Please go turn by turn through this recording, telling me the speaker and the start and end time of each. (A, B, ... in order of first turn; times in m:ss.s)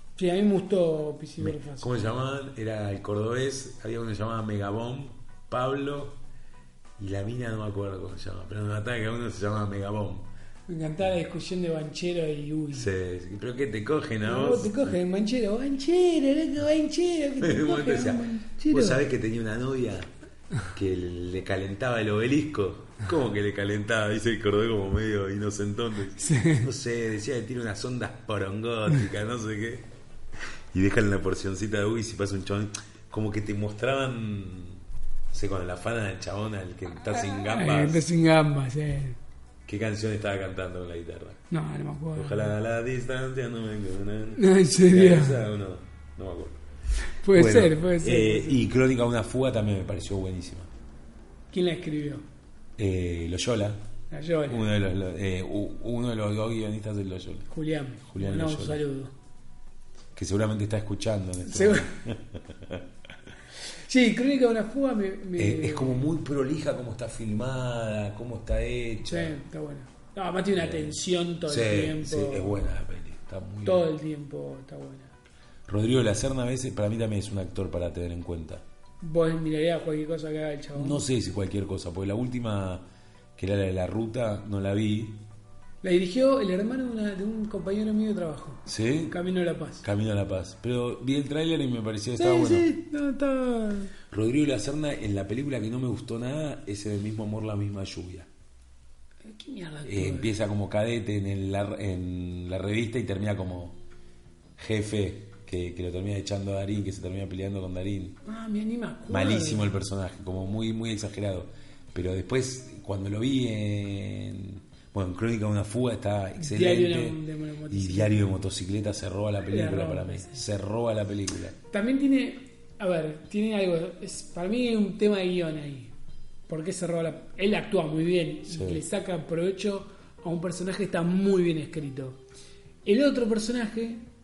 0:00.2-0:02.0 A
0:01.4-0:06.2 B
0:07.0-0:10.3 B
0:10.7-0:12.9 A
0:12.7-0:15.0 B
0:14.2-0:19.0 A
0:17.4-0:20.1 B
0:20.7-0:29.9 B
0:26.2-0:26.7 A
0:30.7-0:38.0 B
0:37.2-0:39.2 A
0:39.6-0:41.4 B
0:41.5-0:42.5 A
0:42.1-0:46.6 B
0:44.4-0:45.4 A
0:47.1-0:48.6 A
0:47.3-0:50.7 B
0:51.5-0:52.2 A
0:52.8-0:53.8 B
0:54.1-0:54.6 A
0:54.4-0:57.5 B
0:57.5-0:59.1 A
0:58.1-0:58.8 B
1:00.1-1:02.8 B
1:01.4-1:01.9 A
1:03.7-1:06.1 A
1:05.4-1:09.4 B
1:09.0-1:12.7 A
1:10.5-1:13.9 B
1:13.6-1:15.1 A
1:15.7-1:18.6 B
1:19.0-1:21.0 A
1:20.7-1:22.8 B
1:23.4-1:25.2 B
1:25.8-1:29.8 A
1:28.6-1:29.2 B
1:29.8-1:32.7 B
1:32.2-1:33.9 A
1:34.1-1:38.3 B
1:39.2-1:40.3 A
1:39.8-1:43.8 B
1:44.6-1:48.2 B
1:48.2-1:49.8 A
1:49.1-2:01.5 B
1:56.4-1:58.4 A
1:59.5-2:00.4 A
2:01.7-2:05.9 A
2:06.5-2:12.2 A
2:08.5-2:08.8 B
2:12.8-2:14.0 A